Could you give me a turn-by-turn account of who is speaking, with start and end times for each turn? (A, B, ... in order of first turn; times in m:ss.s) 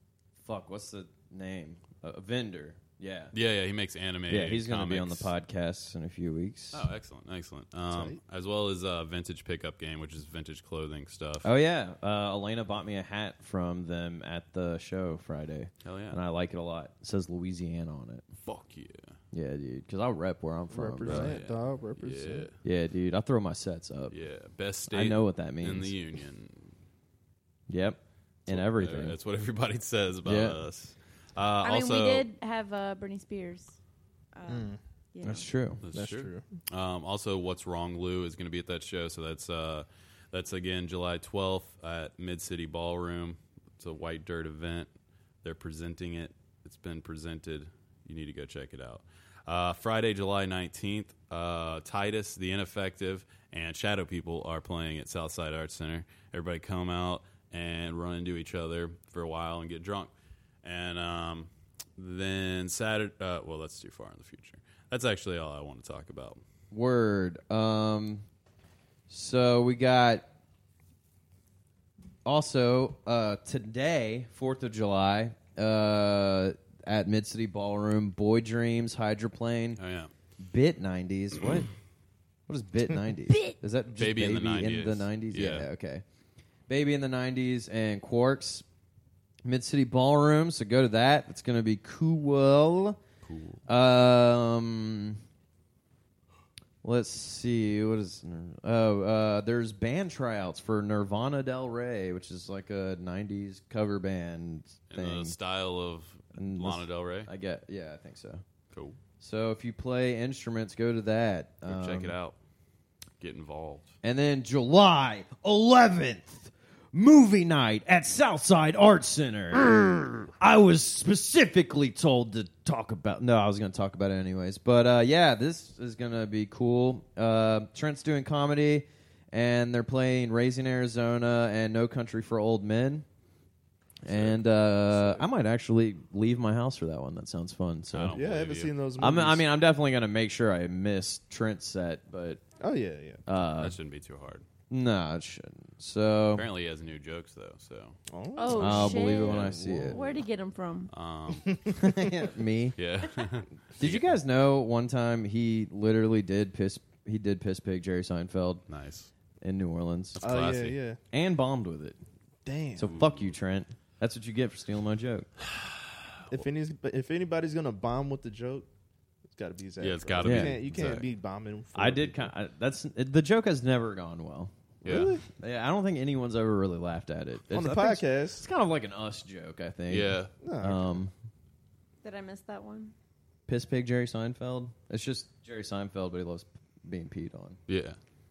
0:00.4-0:03.3 A
0:03.3-0:05.3 B
0:04.3-0:06.9 A
0:06.7-0:11.5 B
0:07.9-0:08.2 C
0:11.4-0:18.2 A
0:15.8-0:16.2 B
0:18.4-0:19.1 B
0:19.3-0:21.4 A
0:20.7-0:22.5 C
0:21.0-0:22.5 B
0:22.6-0:24.1 A
0:24.1-0:26.7 B
0:24.9-0:25.9 A
0:27.7-0:29.2 A
0:28.5-0:32.3 B
0:30.2-0:30.6 A
0:31.6-0:33.8 D
0:34.3-0:35.5 D
0:34.5-0:34.8 C
0:35.2-0:35.8 A
0:35.8-0:44.9 B
0:35.9-0:36.4 C
0:45.4-1:00.1 B
1:00.6-1:06.4 B
1:06.7-1:08.2 A
1:09.1-1:10.3 A
1:12.2-1:19.8 A
1:19.8-1:20.1 B
1:20.4-1:21.7 A
1:22.5-1:26.0 A
1:24.0-1:25.7 B
1:26.7-1:28.6 A
1:29.4-1:33.0 A
1:33.2-1:33.6 B
1:33.7-1:35.2 A
1:36.8-1:45.4 A
1:44.9-1:47.3 B
1:46.4-1:48.4 A
1:48.7-1:49.0 B
1:49.2-1:52.2 A
1:51.7-1:52.4 B
1:53.2-1:53.9 B
1:54.0-2:13.1 A
2:14.0-2:18.2 A
2:14.1-2:15.2 B
2:17.9-2:18.7 B
2:18.1-2:19.4 C
2:19.0-2:22.4 A
2:22.6-2:23.2 C
2:23.3-2:23.8 A
2:23.6-2:24.4 B
2:24.7-2:26.5 A
2:26.3-2:28.0 B
2:28.1-2:30.2 C
2:28.4-2:30.9 D
2:28.5-2:30.0 A
2:30.9-2:31.6 B
2:31.4-2:32.0 C
2:31.8-2:32.8 A
2:32.8-2:34.2 B
2:33.8-2:38.6 A
2:38.7-2:39.1 B
2:39.4-2:40.2 A
2:40.2-2:40.8 B
2:40.2-2:41.0 C
2:41.1-2:42.0 A
2:42.4-2:43.0 C
2:42.8-2:45.3 A
2:46.3-2:48.7 C
2:49.3-2:52.3 C
2:49.8-2:51.1 B
2:50.2-2:50.6 A
2:51.8-3:01.1 A
2:54.8-2:55.2 C
2:54.8-2:55.1 B
2:57.5-2:58.5 C
2:59.9-3:00.3 B
3:00.4-3:01.0 C
3:02.0-3:02.9 D
3:03.5-3:07.6 A
3:07.7-3:08.0 B